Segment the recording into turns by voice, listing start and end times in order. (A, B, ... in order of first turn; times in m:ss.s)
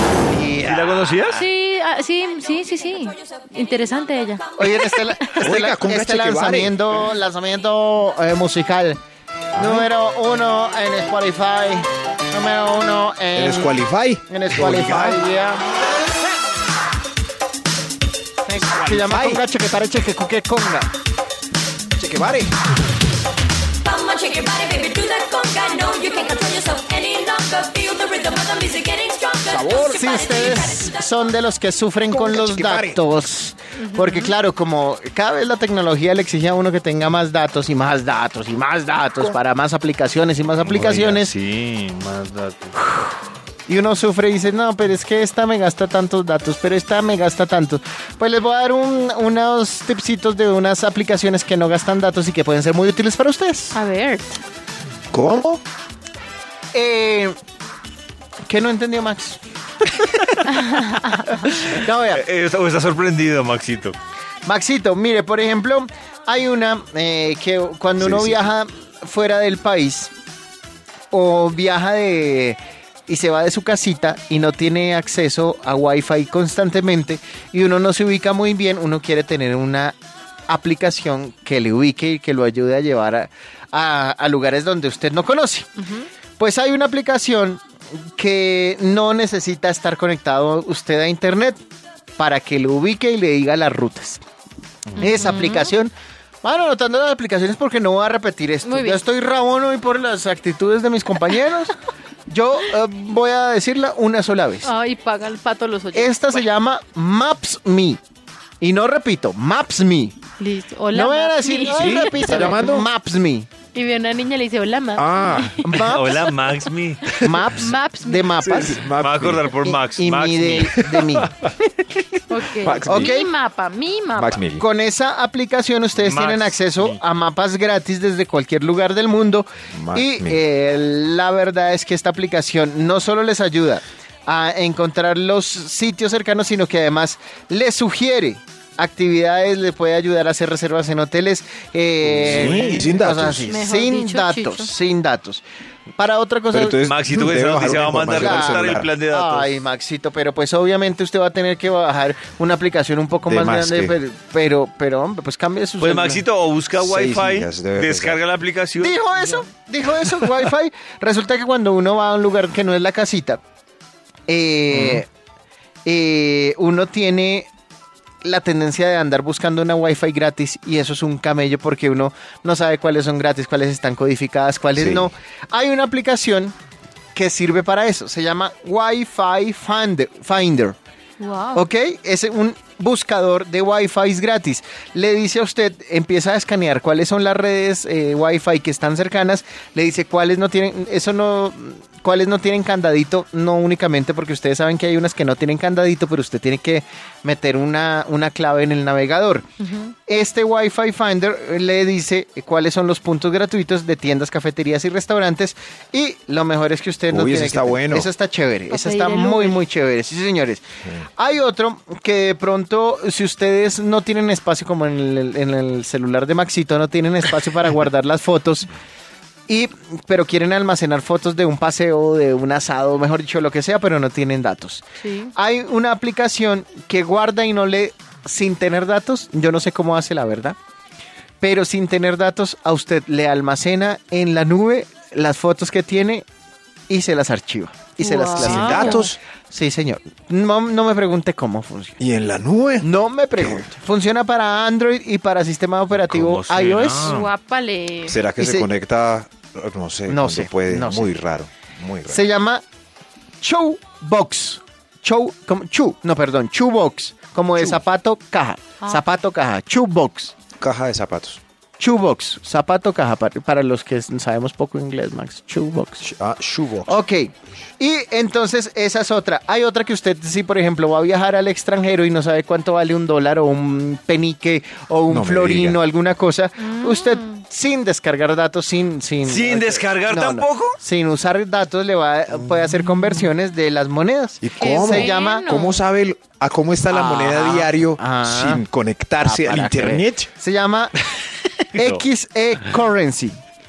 0:00.2-0:01.1 A
0:00.6-0:01.5 B
0:01.4-0:05.3 C
0:04.6-0:09.0 A
0:05.4-0:07.0 D
0:09.6-0:09.9 D
0:09.6-0:13.8 A
0:13.4-0:15.2 D
0:14.3-0:15.6 A
0:18.5-0:20.9 A
0:18.6-0:19.4 D
0:22.0-0:22.5 D
0:23.9-0:29.4 E
0:29.5-0:30.2 D
0:29.6-0:41.3 A
0:32.1-0:33.0 D
0:33.8-0:34.3 C
0:40.7-0:42.7 B
0:43.7-0:53.8 A
0:53.7-0:54.4 C
0:55.1-0:55.6 D
0:56.7-0:57.3 A
0:58.5-0:59.4 A
1:00.0-1:00.4 A
1:01.2-1:02.2 A
1:02.1-1:04.0 B
1:04.4-1:10.1 A
1:08.0-1:08.5 D
1:11.1-1:20.0 A
1:20.5-1:25.7 A
1:26.4-1:27.6 A
1:28.2-1:31.6 A
1:32.2-1:34.2 A
1:35.0-1:41.8 A
1:35.4-1:35.7 C
1:38.6-1:39.0 C
1:42.3-1:44.7 A
1:44.6-1:46.3 C
1:45.9-1:48.0 A
1:48.6-1:50.2 A
1:50.4-1:52.7 C
1:50.9-1:53.5 A
1:51.7-1:52.9 D
1:53.7-1:55.8 C
1:55.0-1:55.9 D
1:55.6-1:56.4 A
1:55.8-1:57.2 B
1:57.2-1:58.9 A
1:57.4-1:58.2 C
1:58.3-1:59.7 D
1:58.9-2:00.8 B
1:59.6-2:01.3 A
2:00.8-2:01.5 D
2:02.3-2:04.4 C
2:02.5-2:03.2 D
2:02.9-2:03.3 A
2:04.1-2:04.6 D
2:04.6-2:25.4 A
2:06.0-2:07.0 B
2:09.7-2:10.4 D
2:22.0-2:23.6 D
2:22.2-2:22.9 B
2:23.5-2:24.7 C
2:26.0-2:26.8 A
2:26.5-2:28.9 D
2:26.8-2:29.5 B
2:28.1-2:36.2 A
2:33.3-2:34.0 D
2:35.8-2:39.0 B
2:36.8-2:38.2 D
2:38.8-2:43.4 A
2:44.3-2:45.1 A
2:45.8-2:47.5 A
2:48.2-2:56.6 A
2:54.8-2:55.1 D
2:57.2-3:00.8 A
3:01.2-3:01.6 C
3:01.5-3:19.5 A
3:20.1-3:30.6 A
3:27.1-3:28.1 D
3:28.7-3:29.6 C
3:31.2-3:38.7 A
3:39.5-3:44.8 A
3:45.0-3:45.3 C
3:45.4-3:50.6 A
3:51.4-3:56.3 A
3:56.9-4:02.0 A
3:58.0-3:59.1 C
3:58.4-3:59.2 D
4:02.0-4:02.9 D
4:02.8-4:07.2 A
4:03.4-4:03.7 D
4:06.0-4:07.3 B
4:07.0-4:08.2 C
4:08.1-4:12.3 D
4:08.4-4:08.7 A
4:10.1-4:11.2 A
4:12.1-4:12.6 A
4:13.4-4:20.3 A
4:20.6-4:21.4 D
4:21.8-4:26.1 A
4:26.0-4:27.0 D
4:26.9-4:45.5 A
4:35.1-4:35.8 D
4:36.6-4:37.2 C
4:39.2-4:40.8 B
4:44.4-4:50.3 D
4:44.6-4:45.7 C
4:46.9-4:48.6 A
4:49.2-4:51.0 A
4:51.7-4:53.4 A
4:51.7-4:52.0 B